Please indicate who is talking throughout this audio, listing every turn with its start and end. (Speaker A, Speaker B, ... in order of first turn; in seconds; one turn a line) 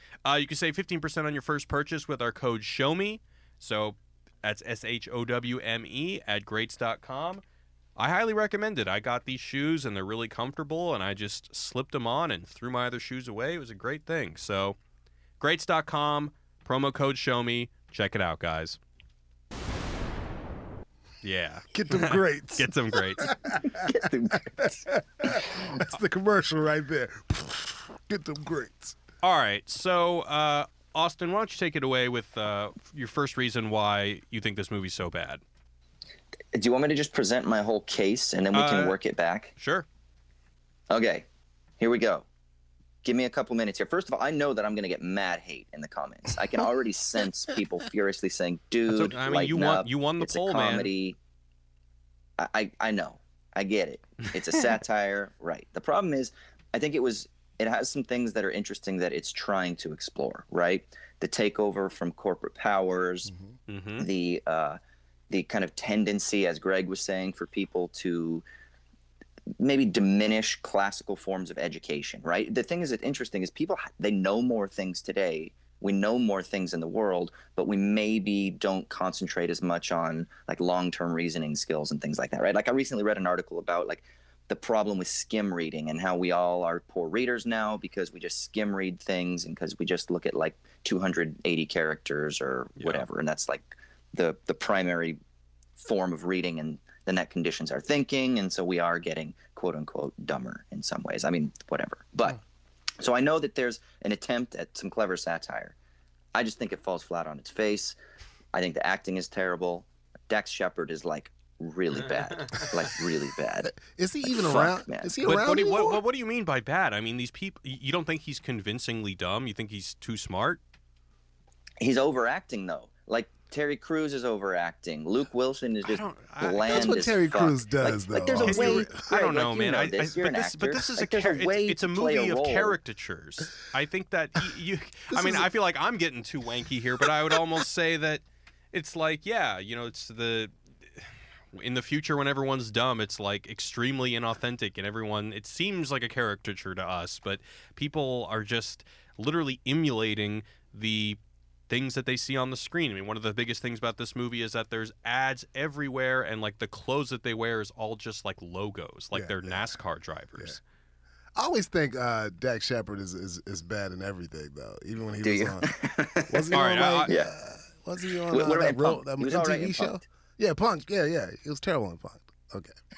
Speaker A: 0.2-7.4
Speaker A: 8.0-14.8
Speaker A: 15.4-18.8
Speaker A: 21.2-23.3
Speaker B: 21.7-29.0
Speaker C: 23.8-25.8
Speaker A: 29.2-35.4
Speaker C: 36.5-39.5
Speaker A: 38.5-39.0
Speaker A: 39.6-39.9
Speaker C: 40.9-41.2
Speaker C: 41.8-42.2
Speaker C: 43.0-51.1
Speaker A: 48.9-50.9
Speaker C: 52.4-63.3
Speaker A: 63.7-64.1
Speaker C: 64.0-64.8
Speaker C: 65.3-68.4
Speaker C: 69.6-95.2
Speaker A: 92.8-93.0
Speaker C: 95.8-102.4
Speaker C: 103.0-105.8
Speaker C: 106.3-108.0
Speaker C: 108.5-115.1
Speaker A: 112.0-112.7
Speaker B: 113.6-116.0
Speaker A: 115.2-120.6
Speaker C: 121.8-132.8
Speaker A: 125.8-127.0
Speaker B: 126.7-129.1
Speaker A: 128.4-151.2
Speaker B: 135.1-135.5
Speaker A: 151.7-160.6
Speaker B: 159.1-159.8
Speaker B: 161.3-165.7
Speaker C: 165.2-167.3
Speaker B: 166.3-172.7
Speaker A: 166.5-167.1
Speaker C: 168.3-170.0